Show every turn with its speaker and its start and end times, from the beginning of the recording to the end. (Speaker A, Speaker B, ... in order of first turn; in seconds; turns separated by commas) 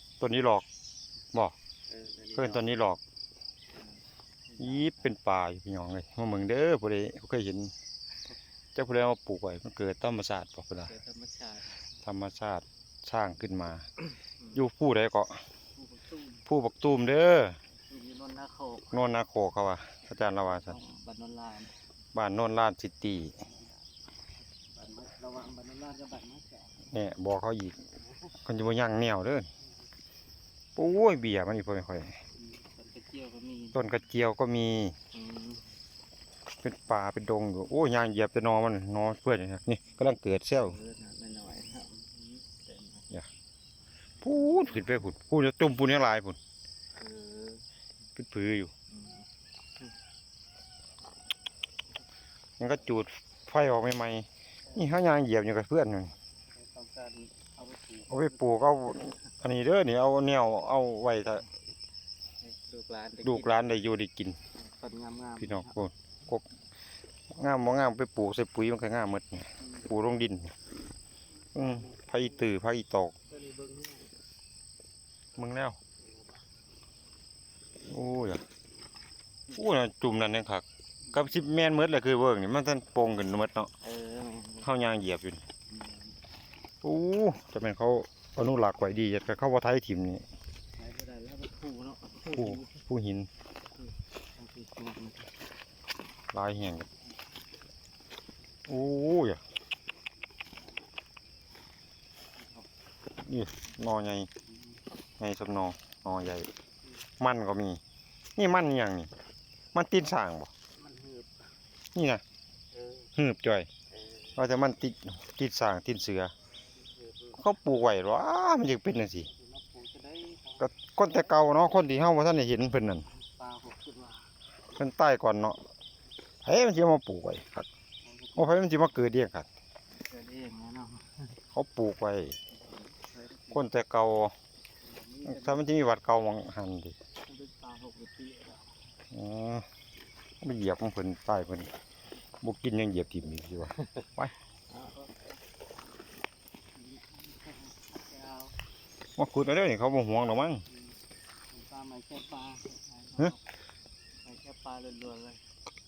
Speaker A: 0.2-0.6, Speaker B: 1.9-2.7, Speaker A: 2.4-3.0, Speaker B: 3.8-5.1, Speaker A: 4.6-7.7, Speaker A: 8.7-10.9, Speaker B: 10.9-11.8, Speaker A: 12.0-13.8, Speaker A: 14.5-15.4, Speaker B: 15.8-16.4, Speaker A: 16.5-17.6, Speaker B: 17.9-19.0, Speaker A: 18.9-20.7, Speaker B: 20.2-21.7, Speaker A: 22.1-23.4, Speaker B: 24.6-26.9, Speaker A: 26.9-27.8, Speaker A: 28.4-29.5, Speaker A: 30.8-32.2, Speaker B: 32.3-33.8, Speaker A: 33.7-35.0, Speaker B: 35.1-35.7, Speaker A: 36.6-40.8, Speaker B: 40.6-43.1, Speaker A: 44.2-46.4, Speaker B: 47.0-47.6, Speaker A: 48.2-48.7, Speaker B: 48.9-49.2, Speaker A: 52.6-56.1, Speaker B: 56.5-58.5, Speaker A: 58.1-61.5, Speaker B: 62.4-63.7, Speaker A: 63.2-64.4, Speaker B: 64.5-65.8, Speaker A: 65.4-66.5, Speaker A: 67.3-70.5, Speaker B: 69.6-69.9, Speaker A: 71.5-73.1, Speaker B: 71.6-72.4, Speaker B: 73.3-74.1, Speaker A: 75.3-75.8, Speaker A: 77.8-78.4, Speaker A: 79.5-83.7, Speaker B: 83.8-84.7, Speaker A: 84.6-85.4, Speaker B: 85.7-86.2, Speaker A: 86.8-90.2, Speaker B: 90.8-92.8, Speaker A: 92.3-93.3, Speaker B: 93.7-95.3, Speaker A: 96.3-96.9, Speaker A: 98.7-99.4, Speaker B: 102.4-102.7, Speaker A: 103.2-104.3, Speaker A: 105.2-106.5, Speaker A: 107.2-107.8, Speaker A: 108.3-109.1, Speaker A: 109.7-110.5, Speaker B: 110.7-111.5, Speaker A: 111.9-112.2, Speaker B: 112.7-113.1, Speaker A: 113.2-113.7, Speaker B: 114.0-114.4, Speaker A: 114.3-116.3, Speaker B: 116.8-117.4, Speaker A: 117.4-119.3, Speaker B: 119.3-121.5, Speaker A: 120.6-123.1, Speaker B: 123.0-124.3, Speaker A: 124.8-125.6, Speaker A: 126.4-127.7, Speaker B: 128.0-128.6, Speaker A: 128.4-129.5, Speaker B: 130.0-131.4, Speaker A: 131.5-132.4, Speaker B: 132.5-133.7, Speaker A: 133.5-134.3, Speaker B: 134.8-135.7, Speaker A: 135.2-136.9, Speaker B: 137.2-138.7, Speaker A: 139.1-139.7, Speaker A: 140.4-141.7, Speaker A: 142.4-144.3, Speaker B: 144.7-145.4, Speaker B: 146.7-148.6, Speaker A: 149.2-150.6, Speaker B: 151.5-153.5, Speaker B: 154.2-155.4